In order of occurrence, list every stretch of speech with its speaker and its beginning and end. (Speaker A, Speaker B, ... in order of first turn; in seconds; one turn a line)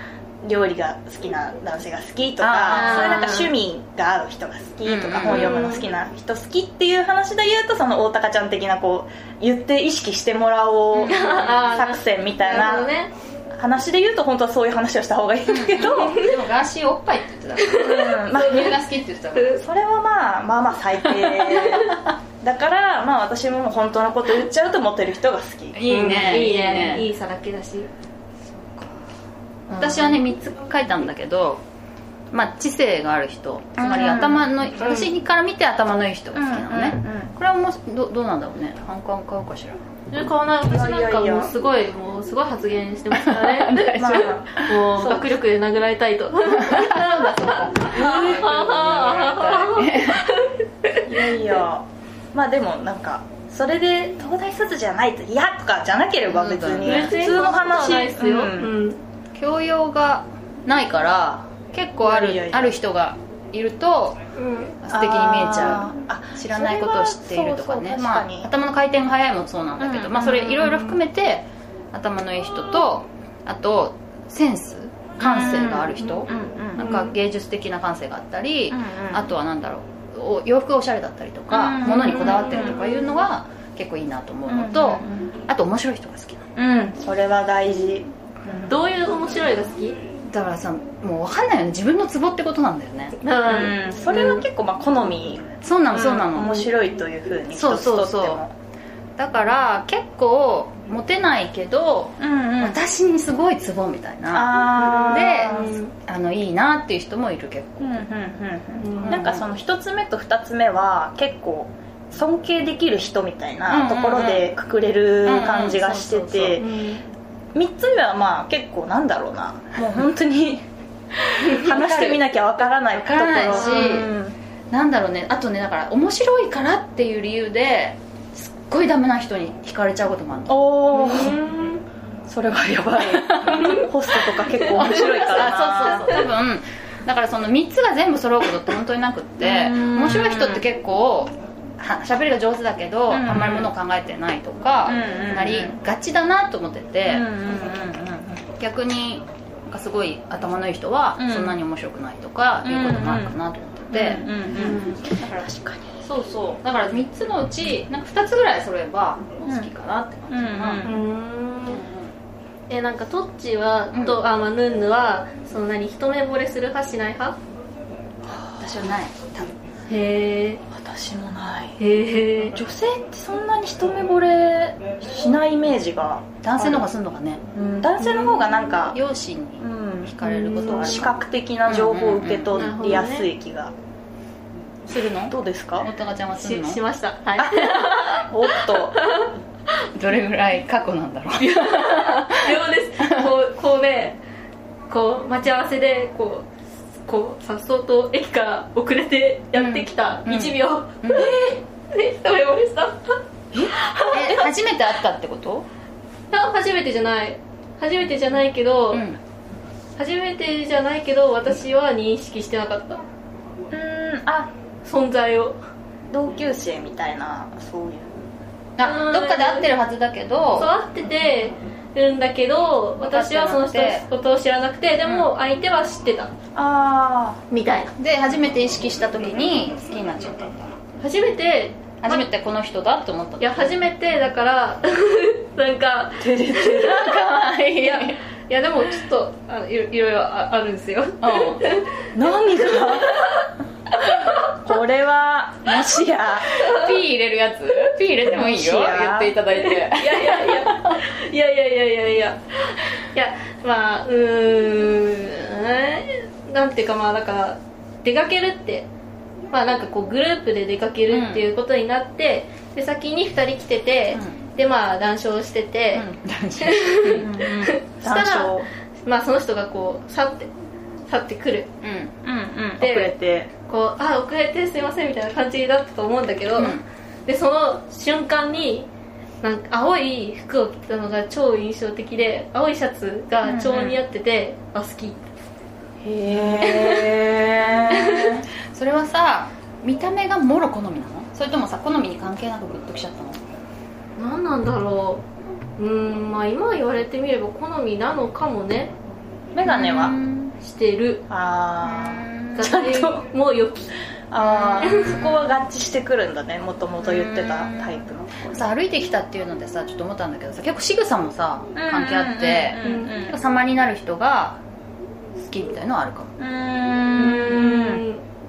Speaker A: 0.4-12.9
Speaker B: 2.4-3.4
Speaker C: 2.7-3.5
Speaker B: 4.8-5.7
Speaker C: 5.3-5.8
Speaker C: 11.0-13.1
Speaker B: 11.2-11.6
Speaker A: 13.5-16.3
Speaker B: 15.5-19.6
Speaker A: 17.7-18.8
Speaker A: 19.5-26.5
Speaker B: 21.4-21.9
Speaker B: 25.7-27.1
Speaker C: 25.9-27.9
Speaker B: 28.5-29.0
Speaker B: 29.7-31.6
Speaker A: 29.8-30.0
Speaker B: 32.3-39.8
Speaker A: 33.8-34.5
Speaker C: 34.8-35.1
Speaker A: 36.3-37.4
Speaker C: 40.1-51.0
Speaker A: 40.7-41.5
Speaker B: 43.1-45.4
Speaker A: 43.9-44.5
Speaker B: 46.5-50.3
Speaker A: 47.9-48.5
Speaker A: 51.1-58.7
Speaker B: 56.3-57.7
Speaker C: 56.8-59.0
Speaker B: 59.4-64.2
Speaker A: 62.0-62.8
Speaker C: 64.4-64.8
Speaker B: 64.8-86.5
Speaker A: 64.9-68.5
Speaker A: 69.8-71.0
Speaker A: 75.2-76.9
Speaker C: 76.8-77.1
Speaker A: 78.7-79.3
Speaker A: 81.5-82.8
Speaker C: 81.8-83.0
Speaker A: 84.5-85.4
Speaker A: 86.6-88.8
Speaker C: 88.7-90.0
Speaker B: 90.3-93.2
Speaker C: 93.2-93.7
Speaker A: 93.5-98.5
Speaker B: 94.1-94.4
Speaker B: 95.6-96.7
Speaker B: 97.5-98.4
Speaker B: 99.2-108.0
Speaker A: 102.2-102.8
Speaker A: 104.3-105.8
Speaker C: 104.9-105.9
Speaker A: 107.8-116.7
Speaker C: 108.8-109.2
Speaker B: 109.0-109.5
Speaker B: 113.7-114.5
Speaker B: 115.2-116.6
Speaker C: 116.6-117.1
Speaker A: 117.5-120.7
Speaker A: 121.4-124.4
Speaker B: 121.5-122.3
Speaker B: 122.9-124.1
Speaker C: 123.5-124.0
Speaker B: 124.7-130.6
Speaker A: 130.5-131.4
Speaker C: 130.9-131.8
Speaker A: 132.3-136.2
Speaker B: 133.1-133.8
Speaker B: 134.6-147.3
Speaker A: 139.4-140.6
Speaker A: 143.1-143.7
Speaker A: 144.9-145.8
Speaker A: 147.1-148.4
Speaker B: 148.6-155.4
Speaker A: 151.2-151.6
Speaker A: 152.6-153.3
Speaker A: 153.9-156.0
Speaker B: 156.0-160.8
Speaker A: 160.3-161.0
Speaker C: 160.8-161.8
Speaker B: 161.7-162.1
Speaker C: 162.7-167.4
Speaker A: 168.2-169.5
Speaker C: 169.9-170.6
Speaker A: 170.7-171.8
Speaker C: 171.8-172.6
Speaker A: 172.5-176.9
Speaker B: 176.4-177.4
Speaker A: 177.5-179.0
Speaker B: 178.9-182.7
Speaker A: 179.6-183.7
Speaker C: 180.2-181.0
Speaker C: 182.5-183.3
Speaker B: 184.9-186.8
Speaker A: 185.3-185.9
Speaker C: 186.3-189.3
Speaker A: 187.4-189.0
Speaker B: 189.9-193.3
Speaker C: 191.4-194.2
Speaker C: 194.9-204.5
Speaker B: 199.6-201.4
Speaker B: 204.1-205.7
Speaker C: 206.3-209.0
Speaker B: 208.9-209.2
Speaker C: 210.0-213.0
Speaker A: 213.7-214.5
Speaker C: 214.8-215.6
Speaker A: 216.1-218.3
Speaker B: 218.8-220.7
Speaker C: 218.8-219.7
Speaker C: 220.6-226.3
Speaker B: 223.0-224.0
Speaker B: 225.1-225.3
Speaker A: 226.6-227.5
Speaker C: 227.5-227.9
Speaker B: 228.0-230.8
Speaker C: 231.0-232.3
Speaker B: 232.0-233.8
Speaker C: 233.4-244.4
Speaker A: 236.2-237.1
Speaker B: 236.7-238.2
Speaker B: 241.2-241.6
Speaker A: 242.1-243.2
Speaker A: 244.5-246.5
Speaker B: 246.5-251.0
Speaker C: 246.6-246.9
Speaker A: 248.2-249.4
Speaker C: 249.6-258.9
Speaker C: 259.5-266.1
Speaker A: 266.0-266.2
Speaker B: 266.2-267.3
Speaker C: 266.6-270.5
Speaker A: 267.2-268.7
Speaker C: 271.1-271.7
Speaker B: 271.8-272.1
Speaker A: 272.2-273.5
Speaker C: 272.8-273.1
Speaker C: 273.7-278.9
Speaker B: 276.6-276.8
Speaker C: 279.4-285.2
Speaker A: 283.5-283.9
Speaker A: 286.0-288.4
Speaker C: 286.6-287.1
Speaker B: 288.7-293.4
Speaker C: 294.2-295.2
Speaker C: 295.8-298.9
Speaker A: 299.5-300.2
Speaker B: 299.6-300.6
Speaker C: 300.6-301.2
Speaker A: 301.3-303.2
Speaker B: 301.9-302.6
Speaker C: 302.6-303.9
Speaker A: 304.3-308.7
Speaker B: 304.5-305.4
Speaker C: 304.8-305.1
Speaker B: 307.0-308.0
Speaker B: 308.5-314.6
Speaker A: 311.8-313.4
Speaker C: 312.8-313.1
Speaker B: 315.4-316.3
Speaker A: 316.4-318.0
Speaker C: 317.1-318.2